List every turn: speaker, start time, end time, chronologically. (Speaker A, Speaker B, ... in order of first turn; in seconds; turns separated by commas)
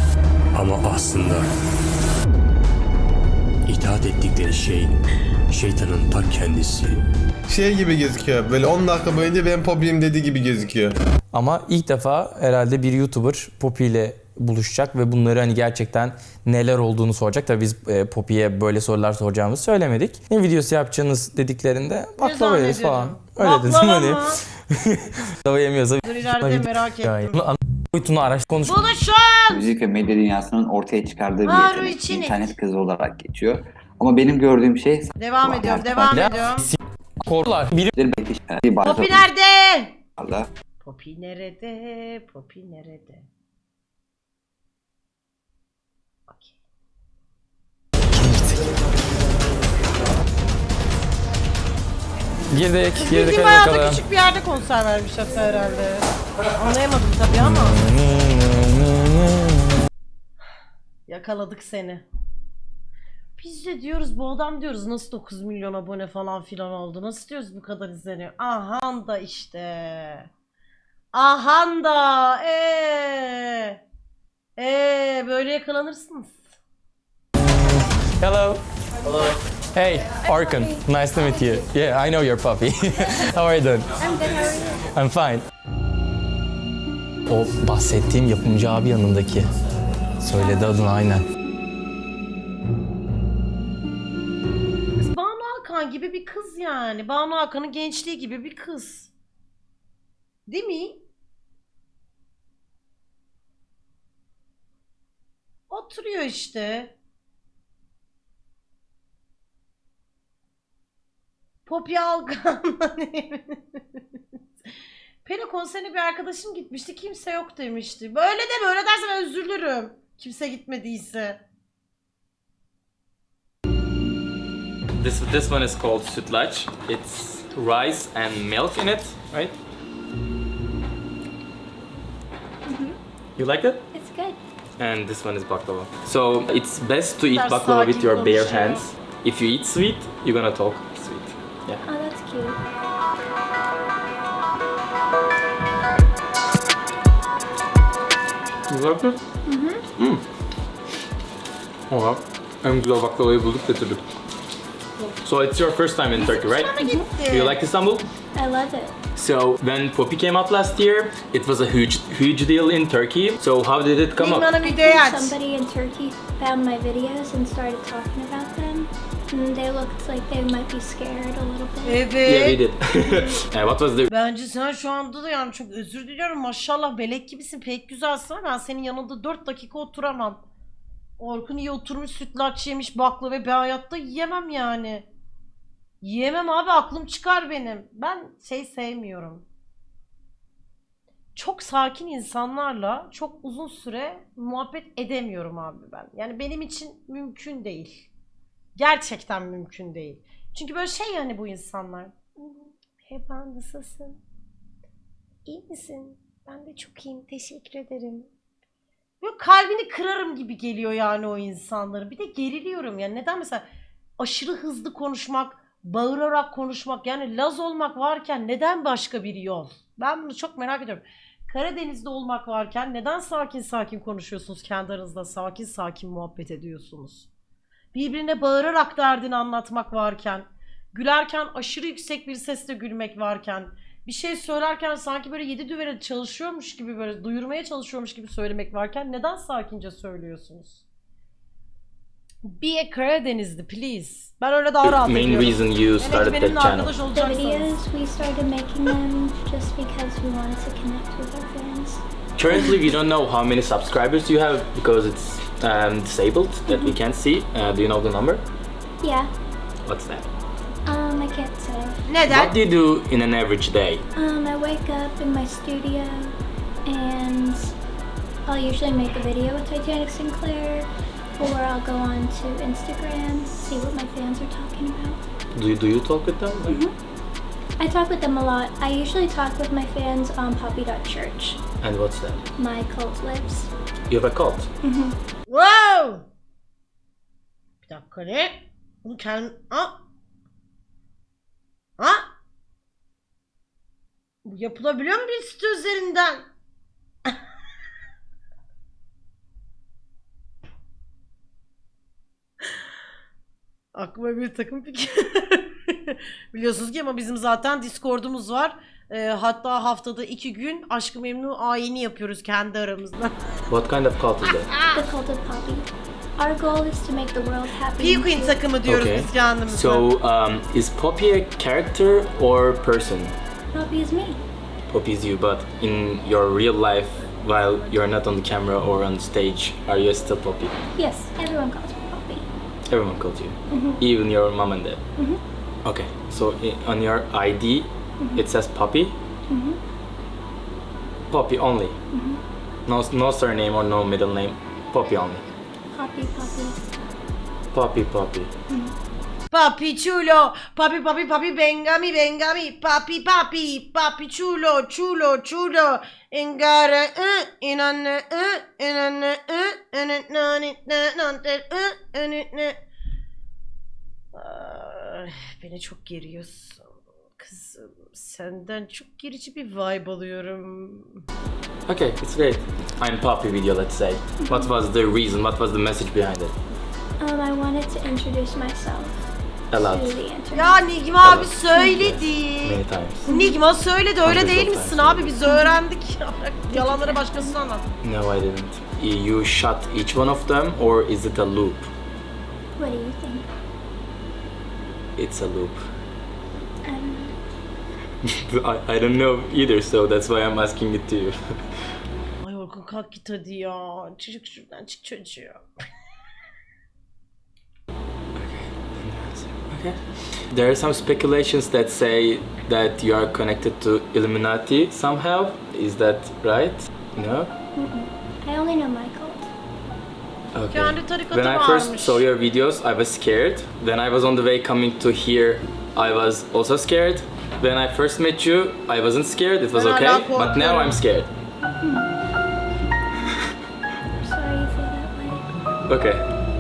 Speaker A: 0.5-1.5, Speaker A: 3.7-4.9, Speaker A: 5.5-7.0, Speaker B: 7.5-11.0, Speaker C: 11.3-28.8, Speaker D: 22.2-24.4, Speaker D: 26.0-27.4, Speaker D: 28.6-29.7, Speaker E: 29.5-36.2, Speaker D: 31.5-32.6, Speaker D: 35.2-36.7, Speaker C: 36.1-37.9, Speaker E: 37.9-39.2, Speaker D: 38.8-40.0, Speaker E: 40.2-40.5, Speaker D: 40.8-43.3, Speaker D: 46.3-46.6, Speaker C: 48.1-48.7, Speaker C: 52.5-54.0, Speaker D: 53.0-57.8, Speaker C: 57.3-59.8, Speaker D: 61.1-62.0, Speaker D: 63.4-70.3, Speaker D: 71.1-73.8, Speaker D: 74.6-76.4, Speaker C: 78.2-78.6, Speaker C: 79.7-83.9, Speaker F: 80.3-80.8, Speaker F: 84.1-84.7, Speaker C: 84.8-85.4, Speaker C: 87.3-89.5, Speaker C: 90.2-91.2, Speaker D: 95.0-99.1, Speaker D: 100.5-101.0, Speaker D: 105.7-106.9, Speaker D: 111.7-114.0, Speaker D: 115.2-121.4, Speaker C: 125.0-129.6, Speaker F: 132.7-133.0, Speaker C: 133.4-133.8, Speaker F: 133.9-134.4, Speaker C: 134.8-141.8, Speaker D: 137.3-138.9, Speaker F: 141.9-142.6, Speaker C: 148.7-149.2, Speaker F: 149.5-149.8, Speaker C: 150.0-150.2, Speaker C: 151.9-154.0, Speaker C: 155.2-158.1, Speaker D: 156.2-157.6, Speaker F: 158.3-158.9, Speaker C: 159.1-164.5, Speaker D: 164.2-165.3, Speaker F: 164.6-172.0, Speaker D: 171.8-172.6, Speaker C: 172.2-174.1, Speaker D: 174.1-180.4, Speaker D: 181.2-185.1, Speaker D: 186.0-189.4, Speaker D: 191.3-198.1, Speaker D: 198.8-204.2, Speaker D: 205.4-208.3, Speaker D: 209.2-213.7, Speaker D: 214.2-227.3, Speaker D: 227.9-240.8, Speaker D: 242.4-247.7, Speaker C: 244.8-246.9, Speaker F: 247.1-252.0, Speaker C: 252.4-258.4, Speaker F: 256.7-257.0, Speaker F: 259.0-259.3, Speaker C: 259.9-260.3, Speaker F: 260.9-262.0, Speaker D: 262.1-262.6, Speaker C: 262.3-264.0, Speaker F: 264.1-267.7, Speaker F: 268.4-275.2, Speaker C: 275.6-276.8, Speaker F: 276.7-276.9, Speaker F: 277.8-281.6, Speaker C: 281.8-282.4, Speaker F: 282.6-283.7, Speaker C: 284.1-284.7, Speaker F: 284.8-285.2, Speaker D: 285.5-286.3, Speaker D: 287.9-290.0, Speaker D: 292.0-292.2, Speaker D: 294.4-296.4, Speaker D: 303.9-313.4, Speaker C: 313.7-314.7, Speaker D: 314.4-315.0, Speaker F: 314.9-318.6, Speaker D: 318.0-320.1, Speaker C: 318.9-323.3, Speaker F: 323.7-324.4, Speaker C: 324.9-330.8, Speaker F: 331.0-332.5, Speaker C: 332.9-335.0, Speaker F: 333.7-334.0, Speaker C: 335.9-339.2, Speaker F: 338.2-338.4, Speaker F: 339.5-339.8, Speaker C: 341.3-342.0, Speaker F: 342.1-342.4, Speaker C: 342.9-345.4, Speaker F: 345.9-346.9, Speaker C: 347.7-348.5, Speaker F: 348.7-348.9, Speaker D: 349.5-362.8, Speaker D: 364.3-371.2, Speaker C: 371.9-376.5, Speaker F: 374.4-374.7, Speaker F: 377.2-380.8, Speaker C: 379.7-380.2, Speaker D: 380.5-387.9, Speaker C: 381.2-383.3, Speaker F: 383.3-383.6, Speaker C: 384.2-385.4, Speaker F: 385.4-385.8, Speaker F: 386.7-387.6, Speaker C: 388.0-391.9, Speaker F: 392.8-393.5, Speaker C: 395.2-395.9, Speaker F: 396.9-397.4, Speaker C: 398.2-401.4, Speaker D: 402.4-405.6, Speaker C: 408.4-410.0, Speaker C: 410.5-417.5, Speaker F: 417.8-419.5, Speaker C: 420.5-431.3, Speaker D: 420.7-422.2, Speaker D: 429.7-431.0, Speaker F: 431.8-432.1, Speaker F: 434.2-435.4, Speaker C: 435.9-436.2